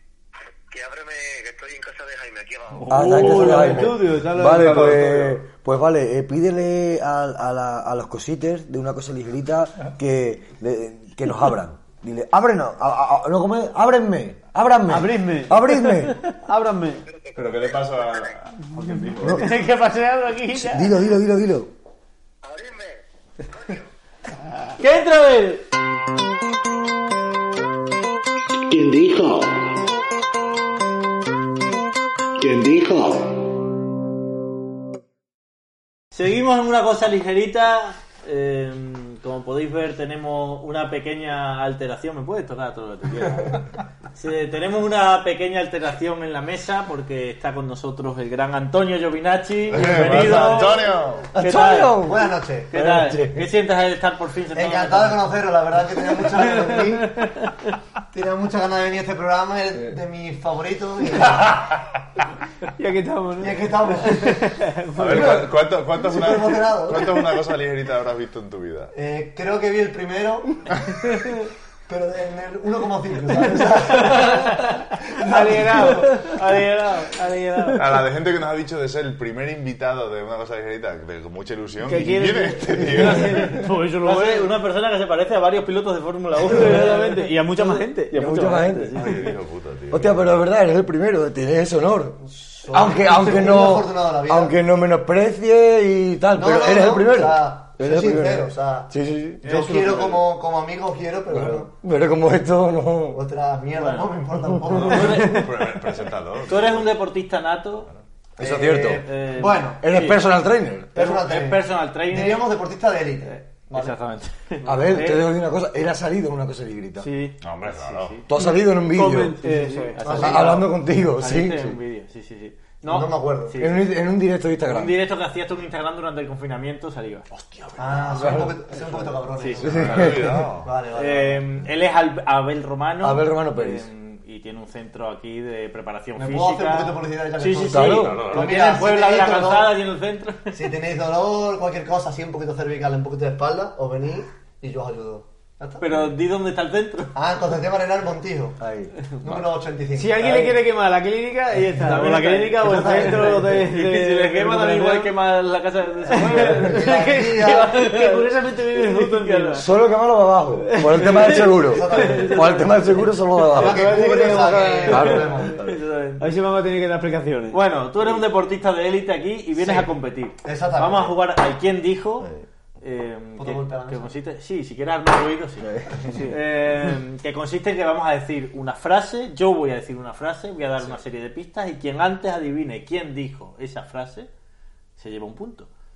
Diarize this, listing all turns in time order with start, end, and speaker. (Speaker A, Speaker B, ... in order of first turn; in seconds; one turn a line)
Speaker A: 0.7-2.9
Speaker B: 2.8-5.4
Speaker C: 2.9-16.2
Speaker D: 2.9-5.0
Speaker D: 14.9-17.1
Speaker A: 17.3-18.3
Speaker B: 17.3-19.6
Speaker D: 19.2-21.0
Speaker C: 19.2-19.6
Speaker C: 20.5-21.7
Speaker A: 22.4-23.0
Speaker A: 23.5-23.8
Speaker E: 24.8-25.6
Speaker C: 28.7-29.5
Speaker C: 32.4-33.1
Speaker E: 36.1-52.1
Speaker B: 49.7-51.3
Speaker C: 49.8-50.6
Speaker C: 51.3-53.5
Speaker F: 51.9-52.7
Speaker E: 52.7-55.3
Speaker F: 54.5-57.3
Speaker D: 56.8-57.5
Speaker F: 58.1-61.6
Speaker D: 62.8-65.5
Speaker F: 63.4-64.5
Speaker B: 65.0-68.9
Speaker F: 66.0-67.2
Speaker F: 68.9-70.6
Speaker B: 70.8-71.1
Speaker F: 71.9-76.2
Speaker D: 73.5-78.0
Speaker E: 76.3-76.7
Speaker B: 77.7-83.7
Speaker D: 81.8-84.5
Speaker E: 84.0-89.3
Speaker D: 86.4-89.1
Speaker C: 88.1-89.1
Speaker B: 88.9-90.4
Speaker C: 89.9-92.2
Speaker F: 92.2-94.5
Speaker C: 92.7-99.5
Speaker F: 96.3-101.7
Speaker D: 99.4-100.2
Speaker C: 101.3-103.2
Speaker F: 103.1-105.5
Speaker E: 103.8-104.1
Speaker B: 104.7-107.0
Speaker E: 104.8-105.5
Speaker E: 106.5-107.9
Speaker F: 108.4-109.8
Speaker C: 108.4-109.1
Speaker E: 109.0-110.2
Speaker C: 109.8-110.9
Speaker F: 110.9-114.0
Speaker E: 110.9-112.5
Speaker E: 113.2-115.3
Speaker C: 114.6-117.1
Speaker D: 117.0-117.4
Speaker B: 117.4-118.2
Speaker E: 117.7-118.2
Speaker C: 118.3-119.5
Speaker D: 118.3-120.2
Speaker E: 119.5-123.9
Speaker F: 120.0-120.7
Speaker C: 120.0-121.8
Speaker F: 122.8-123.6
Speaker C: 123.6-125.0
Speaker E: 124.7-127.3
Speaker B: 127.3-128.5
Speaker F: 127.8-131.4
Speaker C: 128.2-128.5
Speaker E: 129.4-129.8
Speaker C: 129.6-130.5
Speaker B: 129.6-130.7
Speaker E: 130.9-140.6
Speaker C: 133.0-133.9
Speaker F: 136.2-139.8
Speaker C: 137.7-138.3
Speaker B: 138.0-138.6
Speaker F: 140.5-145.9
Speaker E: 145.8-147.1
Speaker F: 147.1-148.6
Speaker C: 148.6-148.9
Speaker F: 149.2-150.6
Speaker D: 149.9-155.2
Speaker E: 151.8-159.6
Speaker F: 152.6-153.5
Speaker D: 156.1-159.7
Speaker F: 156.4-157.7
Speaker C: 159.6-164.0
Speaker D: 160.7-162.7
Speaker F: 161.3-162.7
Speaker D: 163.5-165.5
Speaker F: 163.5-165.6
Speaker C: 164.9-165.7
Speaker E: 165.4-166.3
Speaker D: 166.2-167.6
Speaker E: 167.5-172.3
Speaker F: 169.6-171.2
Speaker E: 172.8-184.3
Speaker F: 173.4-174.1
Speaker C: 175.6-176.1
Speaker D: 176.1-176.4
Speaker E: 185.0-185.7